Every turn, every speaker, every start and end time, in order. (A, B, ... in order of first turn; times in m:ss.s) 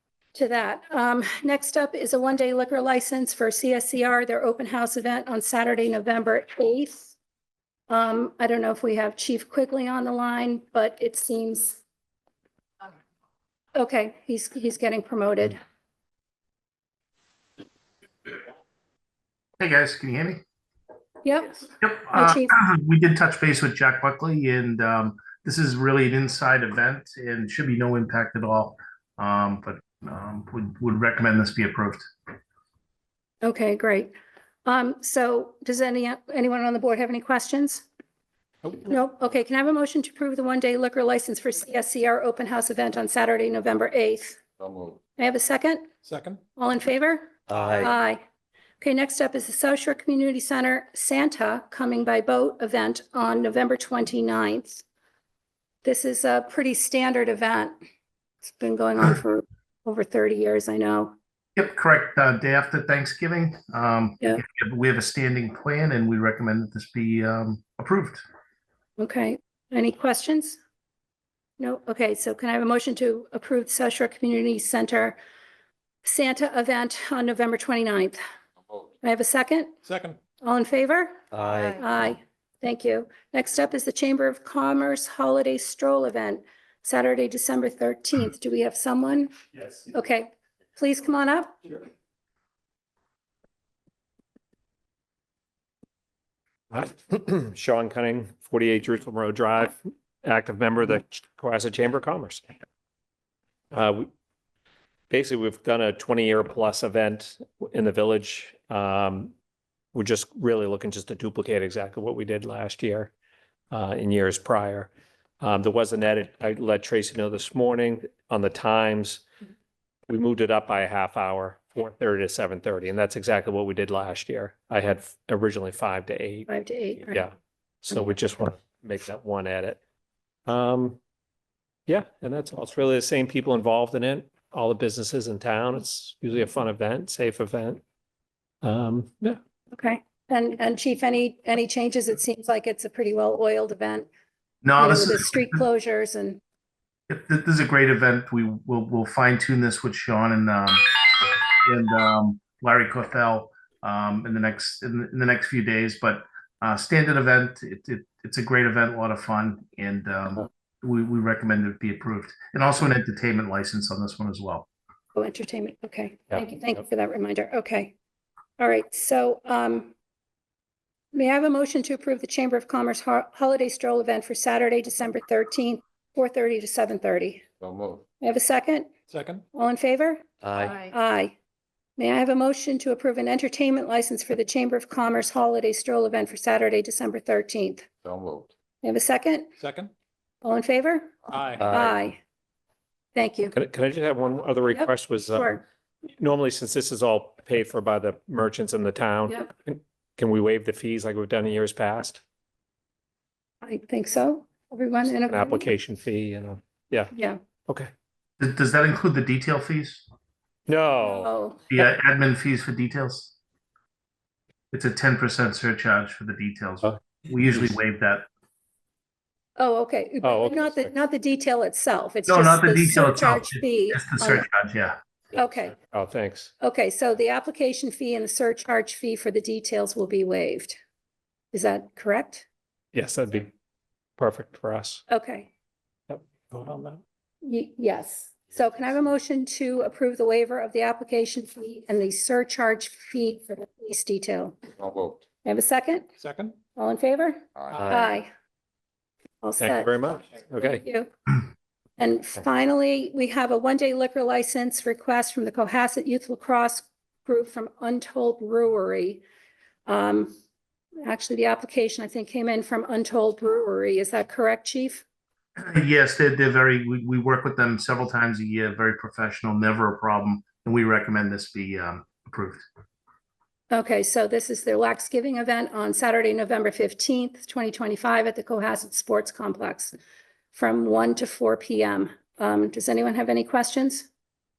0:00.3-0:07.2 A
0:07.9-0:11.8 A
0:13.8-0:15.6 A
0:19.6-0:20.4 B
0:21.2-0:22.5 A
0:21.8-0:32.0 B
0:33.4-0:34.1 A
0:34.6-0:37.9 A
0:38.8-0:44.4 A
0:44.6-0:45.0 C
0:45.2-0:45.9 A
0:46.0-0:46.4 D
0:46.6-0:48.2 A
0:47.5-0:47.9 C
0:48.8-0:54.8 A
0:55.8-0:57.8 A
0:58.4-1:01.1 A
1:01.6-1:08.2 B
1:09.0-1:10.6 A
1:11.6-1:15.2 A
1:16.0-1:18.2 A
1:19.0-1:19.8 A
1:19.8-1:20.2 D
1:20.4-1:31.8 A
1:21.3-1:21.8 C
1:36.7-1:42.4 E
1:43.7-1:44.1 E
1:45.1-1:49.3 E
1:49.9-1:53.1 E
1:53.7-1:54.9 E
1:55.4-1:59.2 E
2:00.1-2:06.5 E
2:06.5-2:07.2 A
2:07.8-2:09.8 E
2:10.5-2:11.0 E
2:11.9-2:17.8 E
2:18.6-2:19.4 E
2:19.7-2:24.1 A
2:24.6-2:25.6 B
2:24.8-2:26.4 A
2:27.1-2:30.8 B
2:31.6-2:44.7 B
2:45.2-2:47.9 A
2:48.6-2:49.9 A
2:51.1-2:57.4 A
2:57.8-2:58.0 C
2:58.2-2:58.9 A
2:59.1-2:59.4 D
2:59.5-3:01.4 A
3:00.4-3:00.8 C
3:02.0-3:07.9 A
3:08.0-3:08.5 C
3:08.8-3:09.5 A
3:09.6-3:09.9 D
3:10.4-3:11.1 A
3:11.3-3:11.7 E
3:11.6-3:12.0 C
3:11.7-3:12.2 A
3:13.2-3:13.6 A
3:13.5-3:15.5 E
3:14.7-3:15.6 A
3:16.2-3:22.2 E
3:23.6-3:25.7 A
3:25.3-3:27.1 E
3:27.1-3:27.4 A
3:28.4-3:30.0 B
3:30.7-3:31.3 E
3:31.0-3:31.6 A
3:31.7-3:33.3 B
3:34.7-3:38.3 B
3:39.6-3:44.5 A
3:40.2-3:40.9 E
3:42.3-3:45.0 B
3:45.3-3:45.8 A
3:45.7-3:46.5 E
3:46.6-3:50.8 A
3:51.5-3:52.5 A
3:52.9-3:53.5 E
3:54.2-3:55.0 E
3:55.1-3:55.5 A
3:56.1-3:57.0 E
3:57.4-4:04.6 A
4:04.8-4:05.2 C
4:05.4-4:06.1 A
4:06.2-4:06.6 D
4:06.8-4:08.3 A
4:07.6-4:08.1 C
4:07.7-4:08.1 D
4:09.4-4:09.9 A
4:09.6-4:10.8 E
4:10.6-4:11.1 A
4:12.0-4:19.2 A
4:19.9-4:20.4 A
4:21.0-4:25.0 A
4:25.6-4:32.6 B
4:33.7-4:40.0 A
4:40.5-4:44.1 A